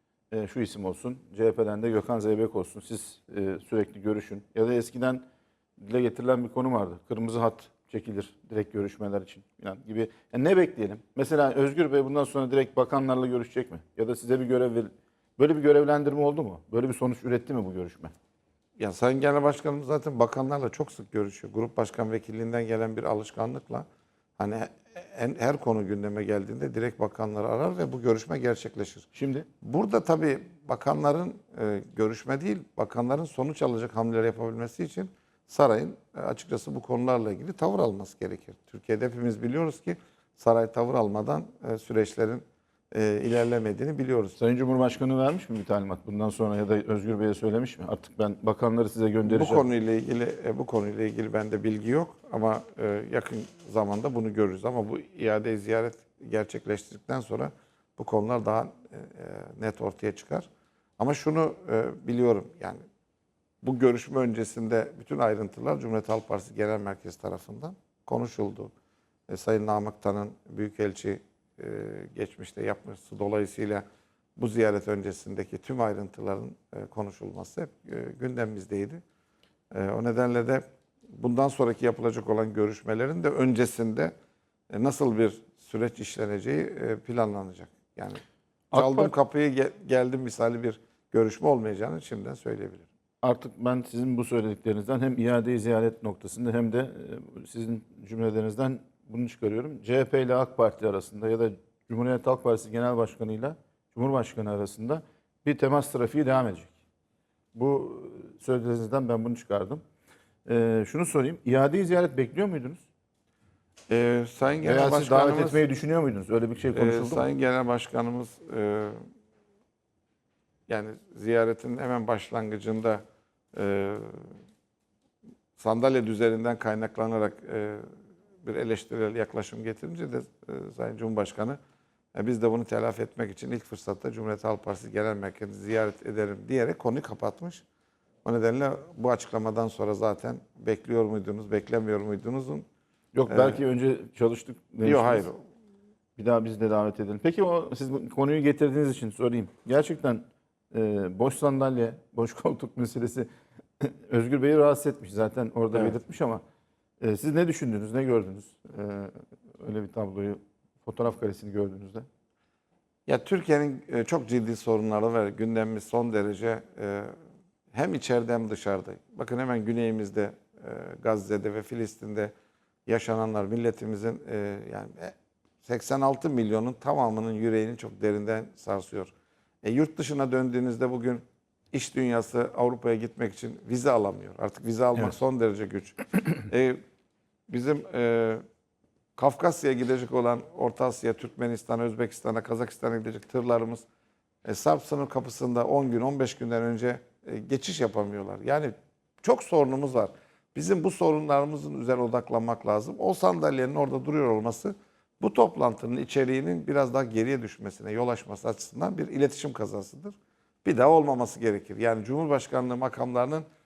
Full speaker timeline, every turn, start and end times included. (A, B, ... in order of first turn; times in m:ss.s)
0:00.3-0:05.2 A
0:05.8-0:18.1 A
0:18.8-0:23.8 B
0:24.4-0:29.1 B
0:29.1-0:29.5 A
0:29.6-0:44.4 B
0:44.4-0:49.6 A
0:49.3-1:00.5 B
1:01.0-1:02.8 B
1:03.6-1:08.7 B
1:09.3-1:13.8 B
1:14.4-1:19.0 B
1:19.7-1:20.6 B
1:21.1-1:24.1 B
1:24.7-1:28.2 B
1:28.7-1:29.1 A
1:28.7-1:32.8 B
1:33.2-1:46.7 A
1:47.5-1:49.8 A
1:50.4-1:52.8 A
1:53.9-1:55.6 B
1:54.6-1:57.3 A
1:56.7-1:59.0 B
2:00.7-2:03.0 B
2:03.5-2:04.4 B
2:05.6-2:07.8 B
2:08.4-2:11.6 B
2:12.1-2:17.6 B
2:18.2-2:22.6 B
2:23.1-2:25.3 A
2:23.3-2:23.6 B
2:24.8-2:25.4 B
2:26.2-2:33.3 A
2:33.8-2:36.4 A
2:35.7-2:36.0 B
2:37.0-2:42.0 A
2:43.0-2:47.1 B
2:47.7-2:52.3 B
2:52.8-2:59.1 B
2:59.6-3:06.8 B
3:07.5-3:08.4 B
3:09.2-3:13.8 B
3:14.4-3:33.4 B